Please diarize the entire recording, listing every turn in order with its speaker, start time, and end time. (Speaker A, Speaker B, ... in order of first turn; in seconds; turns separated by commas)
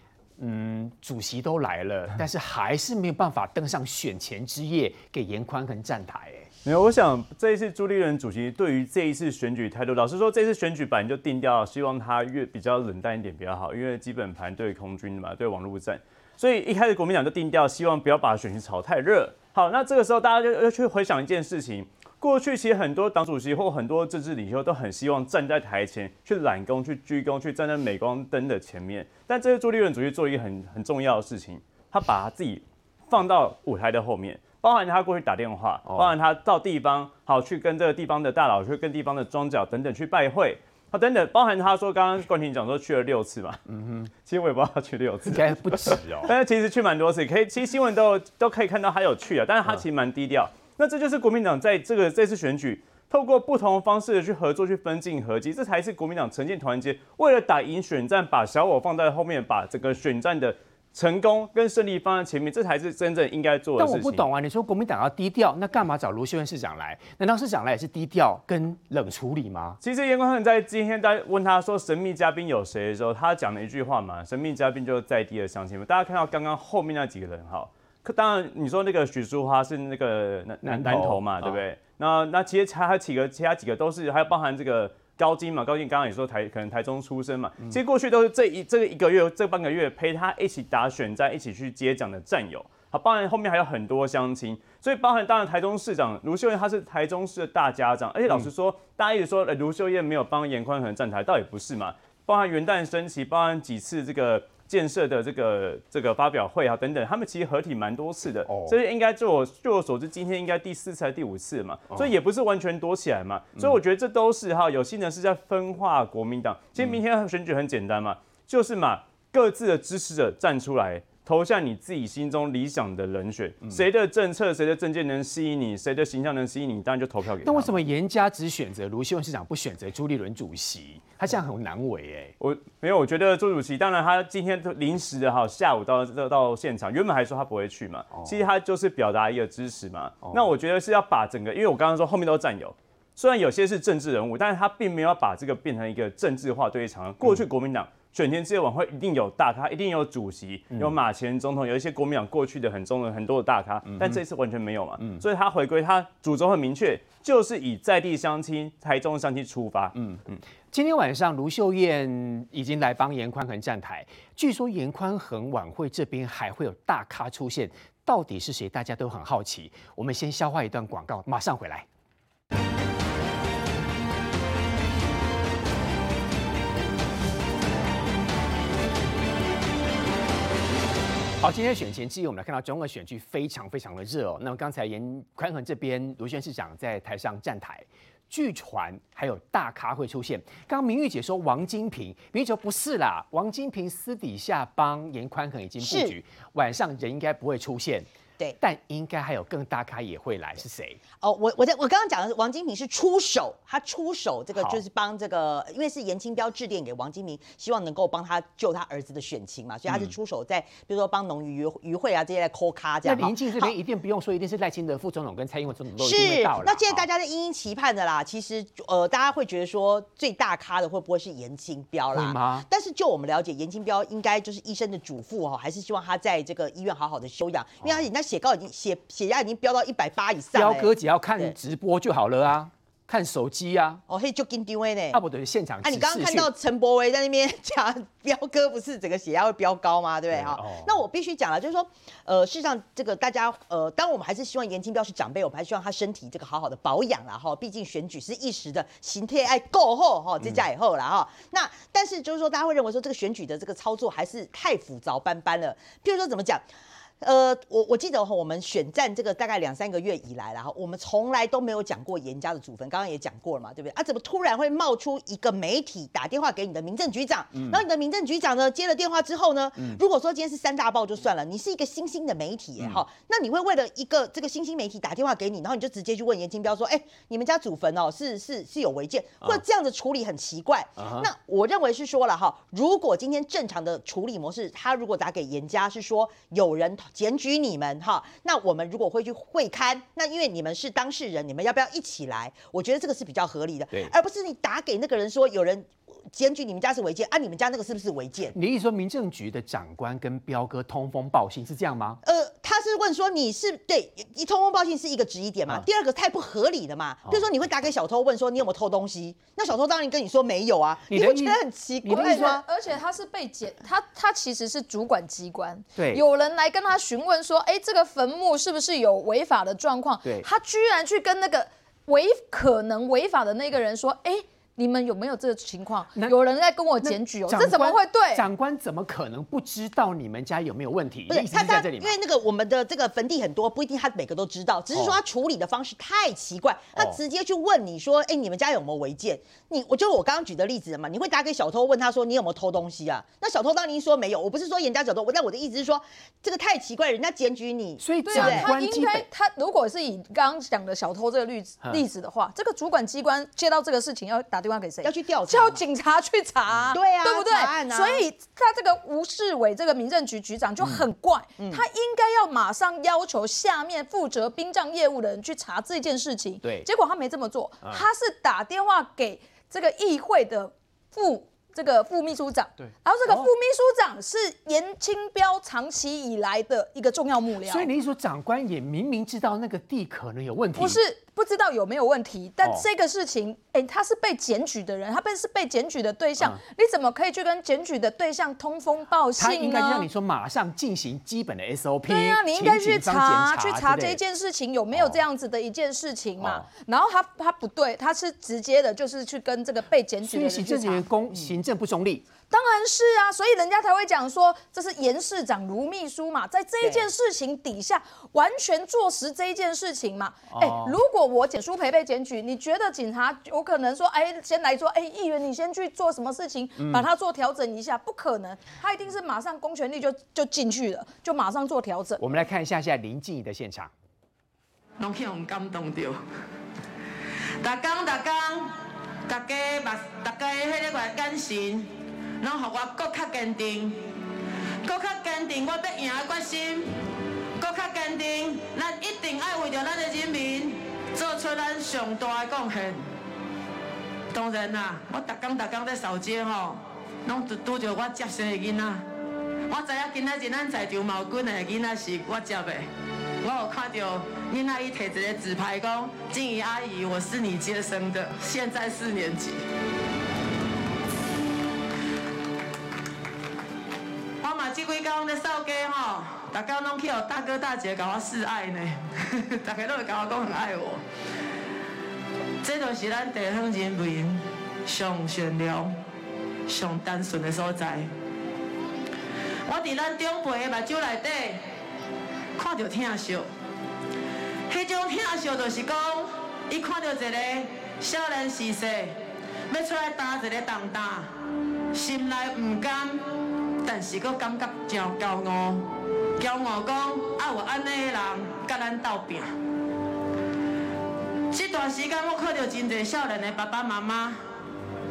Speaker A: 0.4-6.5, Speaker B: 6.6-43.6, Speaker A: 35.9-36.1, Speaker A: 43.7-44.1, Speaker B: 44.2-64.2, Speaker A: 45.3-46.3, Speaker A: 63.8-69.8, Speaker B: 69.8-127.8, Speaker A: 80.6-81.6, Speaker A: 108.5-108.7, Speaker A: 127.4-132.3, Speaker B: 132.4-160.4, Speaker A: 138.1-138.4, Speaker A: 153.9-154.2, Speaker A: 159.9-171.9, Speaker A: 181.4-198.1, Speaker C: 195.8-196.1, Speaker A: 198.6-201.0, Speaker C: 201.2-213.7, Speaker A: 204.6-204.8, Speaker A: 209.9-210.2, Speaker A: 213.0-217.1, Speaker C: 216.0-231.5, Speaker A: 222.1-222.7, Speaker A: 230.5-234.0, Speaker C: 234.1-235.2, Speaker A: 235.1-236.5, Speaker C: 235.8-256.6, Speaker A: 240.3-241.0, Speaker C: 257.2-298.6, Speaker A: 267.5-267.8, Speaker A: 269.8-270.0, Speaker A: 272.8-273.0, Speaker A: 281.0-281.3, Speaker A: 298.5-302.2, Speaker C: 302.2-312.6, Speaker A: 311.1-312.6, Speaker D: 312.1-328.4, Speaker A: 315.9-316.2, Speaker A: 327.0-332.2, Speaker C: 331.3-348.7, Speaker A: 334.9-335.2, Speaker A: 348.0-349.3, Speaker D: 348.2-377.9, Speaker C: 355.0-355.8, Speaker A: 356.7-356.9, Speaker C: 356.9-358.2, Speaker C: 361.6-361.8, Speaker A: 372.8-373.5, Speaker A: 377.6-381.0, Speaker D: 380.8-390.1, Speaker A: 389.4-394.2, Speaker D: 392.1-401.1, Speaker A: 394.9-395.2, Speaker A: 396.4-396.7, Speaker A: 400.2-402.2, Speaker D: 402.5-422.2, Speaker A: 410.5-411.0, Speaker A: 416.8-417.1, Speaker A: 422.2-423.9, Speaker E: 425.0-426.2, Speaker E: 427.6-428.7, Speaker E: 429.3-434.0, Speaker E: 434.8-436.9, Speaker E: 437.6-443.1, Speaker E: 444.3-449.1, Speaker E: 449.7-452.9, Speaker E: 453.4-459.6, Speaker E: 464.4-471.0, Speaker E: 472.6-475.9, Speaker E: 476.7-478.1, Speaker E: 479.6-481.6, Speaker E: 482.6-483.5, Speaker E: 484.7-489.2, Speaker E: 489.7-491.4, Speaker E: 491.9-493.2, Speaker E: 493.8-499.5, Speaker E: 501.5-504.4